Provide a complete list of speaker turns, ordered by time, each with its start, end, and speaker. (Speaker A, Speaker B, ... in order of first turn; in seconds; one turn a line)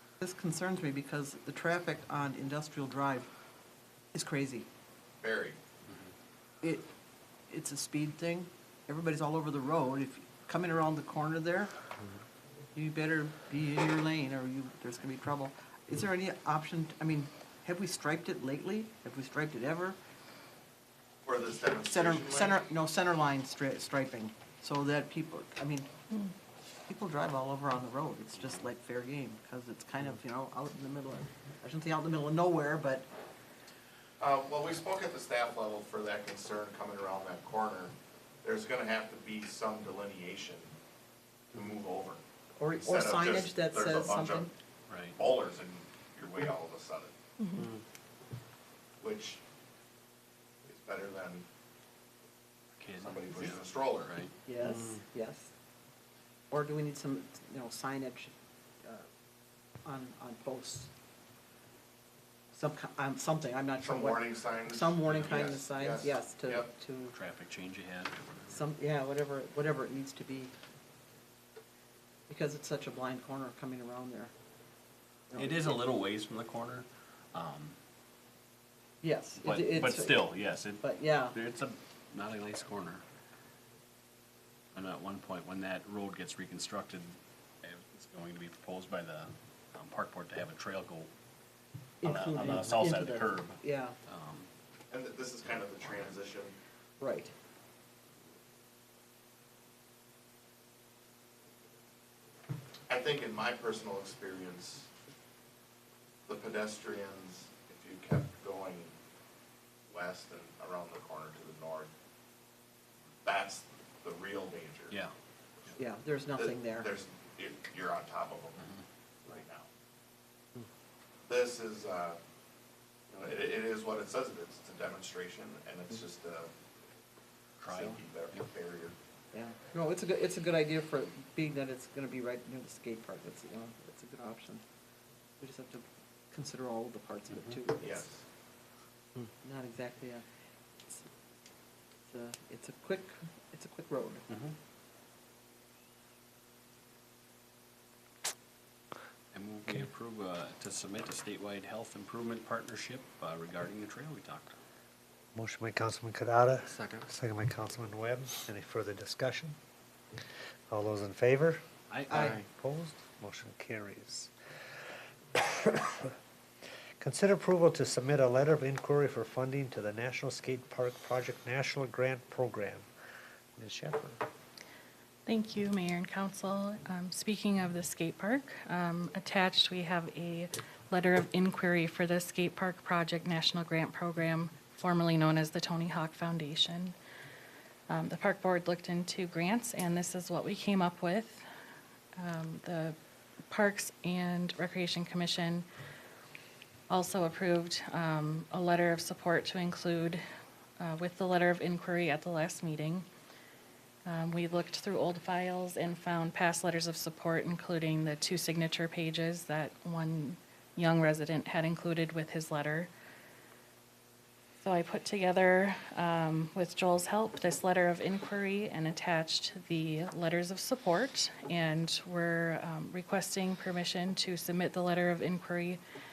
Speaker A: 0.2-3.3
Speaker A: 4.1-4.7
Speaker B: 5.2-5.6
Speaker A: 6.6-6.9
Speaker A: 7.5-11.7
Speaker A: 12.7-20.0
Speaker B: 21.2-22.6
Speaker A: 21.8-25.9
Speaker A: 26.9-33.1
Speaker B: 34.2-40.7
Speaker B: 41.5-42.2
Speaker A: 42.6-44.5
Speaker B: 42.8-44.5
Speaker C: 44.9-45.2
Speaker B: 45.1-47.1
Speaker D: 47.4-47.7
Speaker B: 49.0-49.4
Speaker B: 50.7-51.4
Speaker C: 52.8-54.3
Speaker B: 53.0-54.2
Speaker A: 54.5-55.5
Speaker A: 56.5-59.1
Speaker A: 59.8-60.9
Speaker A: 62.5-67.1
Speaker B: 63.8-66.7
Speaker C: 65.1-65.5
Speaker C: 67.1-68.6
Speaker A: 68.5-70.5
Speaker A: 72.3-74.3
Speaker A: 75.3-75.8
Speaker C: 75.4-77.8
Speaker A: 79.0-80.3
Speaker C: 79.4-83.0
Speaker A: 80.8-81.4
Speaker C: 84.7-91.1
Speaker A: 92.0-94.0
Speaker C: 92.0-94.5
Speaker B: 94.9-96.5
Speaker A: 97.0-97.3
Speaker B: 102.9-104.9
Speaker B: 106.3-108.9
Speaker B: 109.9-111.9
Speaker B: 113.2-115.0
Speaker A: 115.8-116.9
Speaker B: 116.3-118.7
Speaker B: 119.2-119.7
Speaker B: 121.3-122.2
Speaker B: 123.1-126.5
Speaker C: 127.6-128.5
Speaker B: 127.7-128.9
Speaker A: 129.3-134.6
Speaker A: 135.4-138.1
Speaker C: 137.3-137.6
Speaker B: 137.8-138.2
Speaker A: 139.4-140.2
Speaker A: 142.1-144.2
Speaker C: 144.3-144.6
Speaker C: 149.3-154.6
Speaker E: 155.3-159.6
Speaker E: 160.7-164.3
Speaker C: 161.9-162.4
Speaker A: 162.1-162.4
Speaker E: 165.3-166.1
Speaker E: 167.0-172.9
Speaker E: 173.6-174.2
Speaker D: 175.3-186.9
Speaker D: 187.9-191.4
Speaker D: 192.2-193.0
Speaker D: 193.5-195.7
Speaker D: 196.9-200.2
Speaker D: 200.8-203.1
Speaker D: 204.1-212.9
Speaker D: 214.6-225.8